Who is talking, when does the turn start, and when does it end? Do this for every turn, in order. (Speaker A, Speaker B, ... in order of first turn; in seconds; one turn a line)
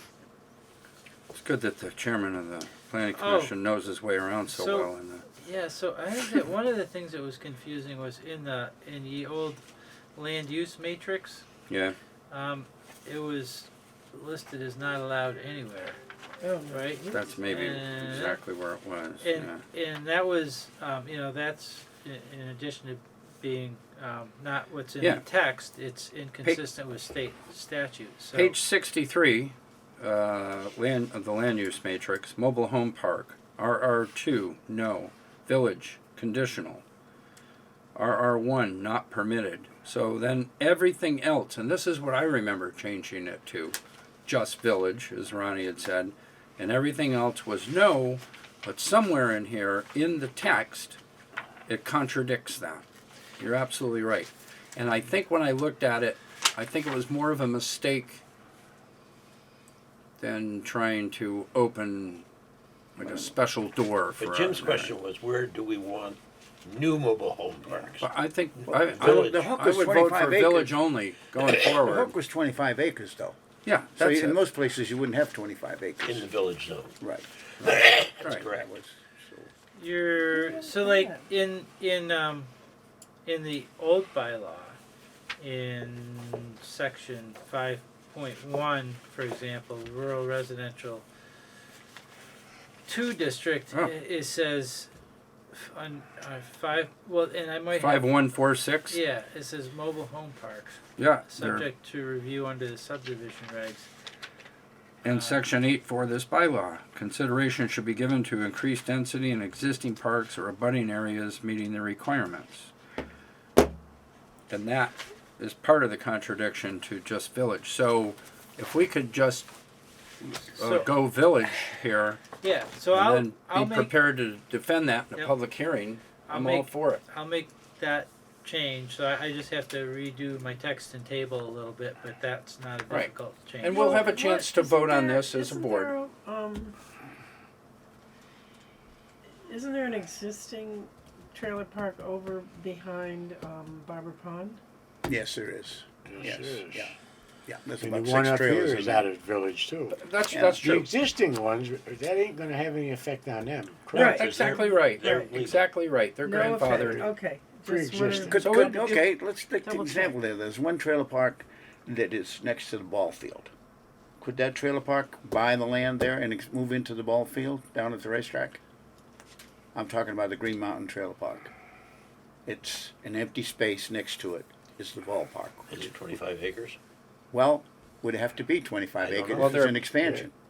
Speaker A: 1.3-5.2
Speaker B: 3.1-3.5
Speaker B: 4.5-9.6
Speaker B: 10.1-11.5
Speaker A: 11.7-11.9
Speaker B: 12.3-16.0
Speaker C: 16.4-17.3
Speaker B: 16.7-18.4
Speaker A: 17.1-19.6
Speaker B: 19.2-28.6
Speaker A: 25.0-25.2
Speaker A: 28.3-36.8
Speaker A: 38.0-51.0
Speaker A: 51.7-52.8
Speaker A: 53.4-58.2
Speaker A: 60.2-62.2
Speaker A: 63.0-64.9
Speaker D: 63.0-63.3
Speaker E: 64.2-69.5
Speaker A: 68.0-72.1
Speaker D: 68.8-70.8
Speaker D: 71.7-73.4
Speaker A: 73.6-74.4
Speaker D: 73.9-76.2
Speaker E: 76.0-77.0
Speaker D: 77.0-79.5
Speaker E: 77.6-78.7
Speaker B: 79.8-82.5
Speaker C: 80.7-81.1
Speaker B: 83.2-84.8
Speaker B: 85.4-91.0
Speaker B: 92.8-94.9
Speaker B: 95.5-98.1
Speaker A: 97.8-99.0
Speaker B: 98.9-103.9
Speaker A: 101.0-101.7
Speaker A: 105.0-112.7
Speaker B: 105.0-105.5
Speaker A: 114.5-119.5
Speaker A: 120.2-122.2
Speaker B: 120.6-120.9
Speaker B: 122.4-123.9
Speaker A: 122.9-127.0
Speaker B: 126.3-134.1
Speaker A: 132.9-135.9
Speaker C: 133.7-136.7
Speaker C: 139.4-144.6
Speaker D: 145.1-146.9
Speaker F: 146.1-146.9
Speaker D: 147.5-149.1
Speaker F: 147.8-150.0
Speaker A: 149.9-150.9
Speaker D: 150.3-150.7
Speaker F: 150.6-154.1
Speaker A: 153.9-157.1
Speaker C: 153.9-155.3
Speaker E: 154.2-155.6
Speaker C: 156.2-159.1
Speaker F: 157.7-158.3
Speaker D: 158.2-163.5
Speaker A: 158.4-158.9
Speaker C: 159.6-160.2
Speaker D: 164.2-168.6
Speaker D: 169.7-171.5
Speaker D: 172.4-175.8
Speaker E: 175.7-176.8
Speaker D: 177.3-180.3
Speaker E: 179.0-179.5
Speaker A: 179.3-179.8